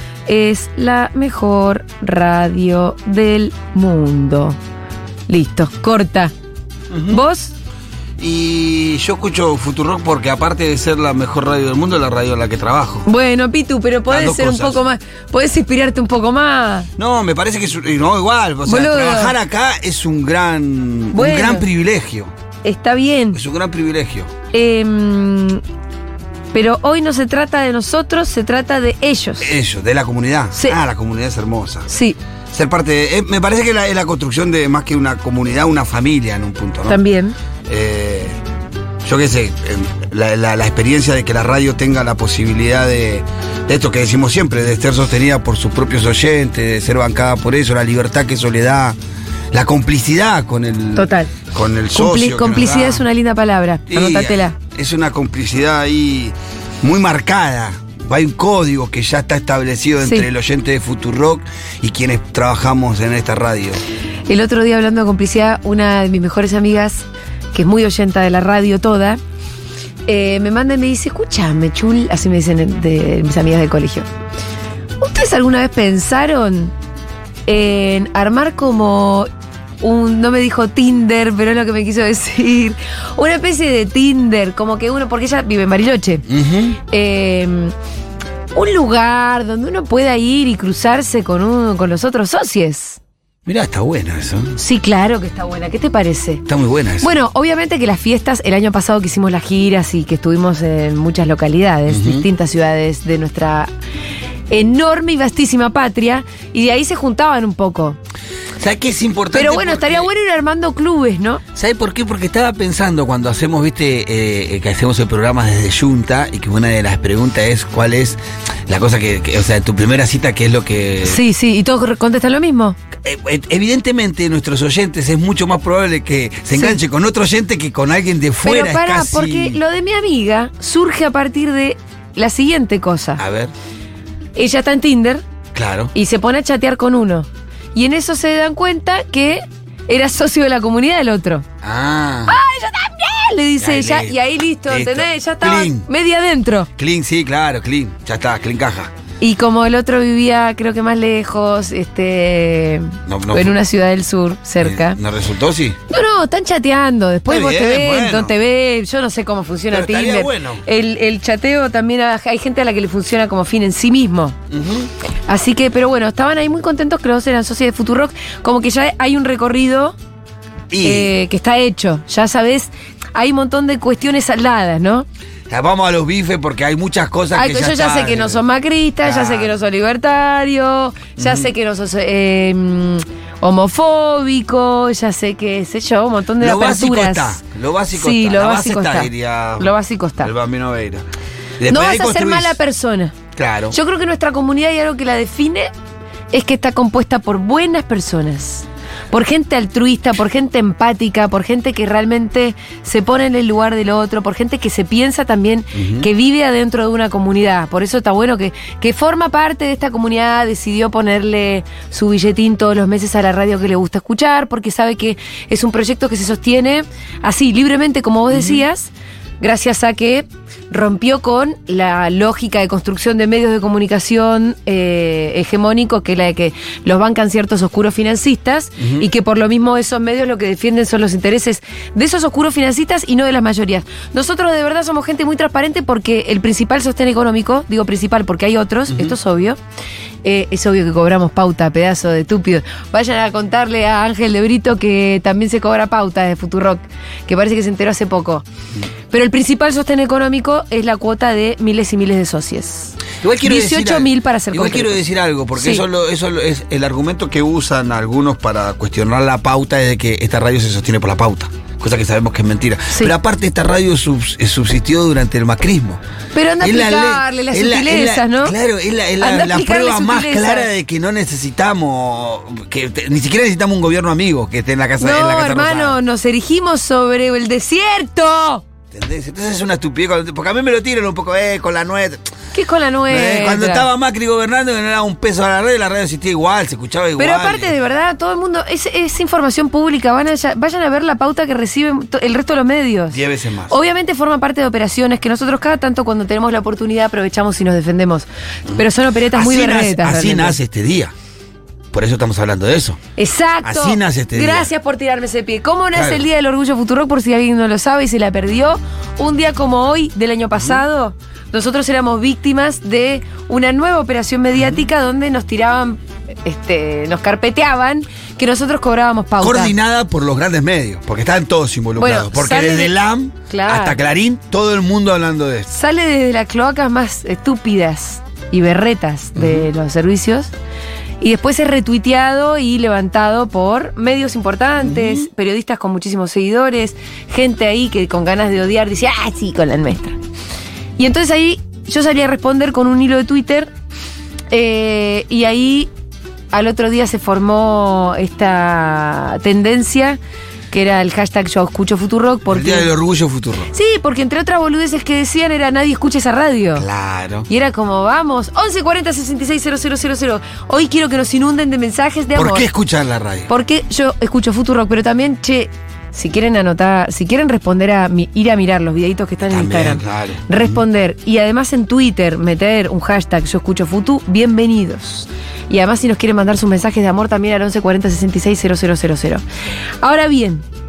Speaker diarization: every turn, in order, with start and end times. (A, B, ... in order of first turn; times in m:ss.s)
0:00.2-0:04.6 A
0:05.3-0:06.3 A
0:06.9-0:07.2 B
0:07.1-0:07.5 A
0:08.2-0:13.1 B
0:13.0-0:16.9 A
0:14.1-0:14.8 B
0:17.0-0:22.3 B
0:18.6-0:19.3 A
0:21.1-0:21.6 A
0:22.6-0:23.4 A
0:23.3-0:24.3 B
0:24.5-0:25.6 A
0:26.5-0:29.5 A
0:29.4-0:31.9 B
0:31.9-0:32.2 A
0:32.5-0:37.0 B
0:36.9-0:37.4 A
0:37.7-0:38.4 B
0:39.0-0:49.0 B
0:49.5-0:53.0 B
0:51.0-0:51.3 A
0:51.9-0:54.5 A
0:53.9-1:03.8 B
1:00.0-1:00.3 A
1:04.3-1:09.2 A
1:10.1-1:14.1 A
1:15.0-1:16.7 A
1:17.5-1:19.3 A
1:19.8-1:26.2 A
1:26.3-1:26.8 B
1:26.9-1:27.7 A
1:28.5-1:33.0 A
1:33.4-1:34.6 B
1:34.6-1:36.4 A
1:36.4-1:37.1 B
1:37.0-1:43.7 A
1:41.9-1:42.2 B
1:44.5-1:48.0 A
1:48.6-1:50.1 B
1:49.3-1:51.4 A
1:51.5-2:01.2 B
2:01.0-2:02.8 A
2:03.0-2:09.6 B
2:06.5-2:06.8 A
2:08.4-2:13.2 A
2:13.2-2:13.5 B
2:14.4-2:15.2 A
2:15.5-2:15.9 B
2:15.9-2:21.4 A
2:21.6-2:22.4 B
2:22.3-2:26.7 A
2:23.6-2:25.9 B
2:26.8-2:28.9 B
2:29.2-2:35.0 A
2:33.1-2:33.6 B
2:34.6-2:35.8 B
2:35.9-2:44.4 A
2:37.3-2:38.3 B
2:39.7-2:40.6 B
2:44.5-2:44.9 B
2:45.3-2:50.0 A
2:50.7-2:51.1 B
2:50.8-2:55.1 A
2:55.5-2:58.4 B
2:57.3-3:07.4 A
2:59.0-2:59.5 B
3:01.2-3:01.5 B
3:06.4-3:11.0 B
3:07.9-3:10.3 A
3:11.6-3:12.6 B
3:11.7-3:13.1 A
3:13.3-3:13.8 B
3:13.7-3:15.7 A
3:16.3-3:38.9 A
3:25.7-3:26.1 B
3:38.3-3:38.6 B
3:39.4-3:59.6 A
3:48.8-3:49.1 B
3:58.9-3:59.2 B
4:00.2-4:08.4 A
4:09.1-4:15.0 A
4:13.2-4:26.0 B
4:15.5-4:15.8 A
4:26.3-4:28.5 A
4:26.6-4:36.0 B
4:29.2-4:30.7 A
4:35.0-4:38.6 A
4:38.9-4:42.2 B
4:42.5-4:43.9 A
4:43.1-4:47.7 B
4:47.2-5:00.6 A
4:53.1-4:53.8 B
4:58.7-5:01.1 B
5:01.9-5:03.0 B
5:03.2-5:19.8 A
5:03.6-5:04.7 B
5:05.9-5:06.2 B
5:10.5-5:10.8 B
5:14.6-5:14.9 B
5:19.4-5:25.7 B
5:22.0-5:22.9 A
5:23.5-5:24.0 A
5:25.7-5:30.5 A
5:29.3-5:29.7 B
5:31.2-5:40.2 A
5:34.8-5:35.3 B
5:41.0-5:43.7 A
5:44.5-5:45.9 A
5:46.5-5:50.2 A
5:50.7-5:52.9 A
5:52.5-5:53.7 B
5:53.7-5:56.9 A
5:56.8-5:57.5 B
5:57.5-6:02.7 A
6:02.3-6:03.5 B
6:03.5-6:19.4 A
6:09.4-6:10.8 B
6:20.0-6:20.6 A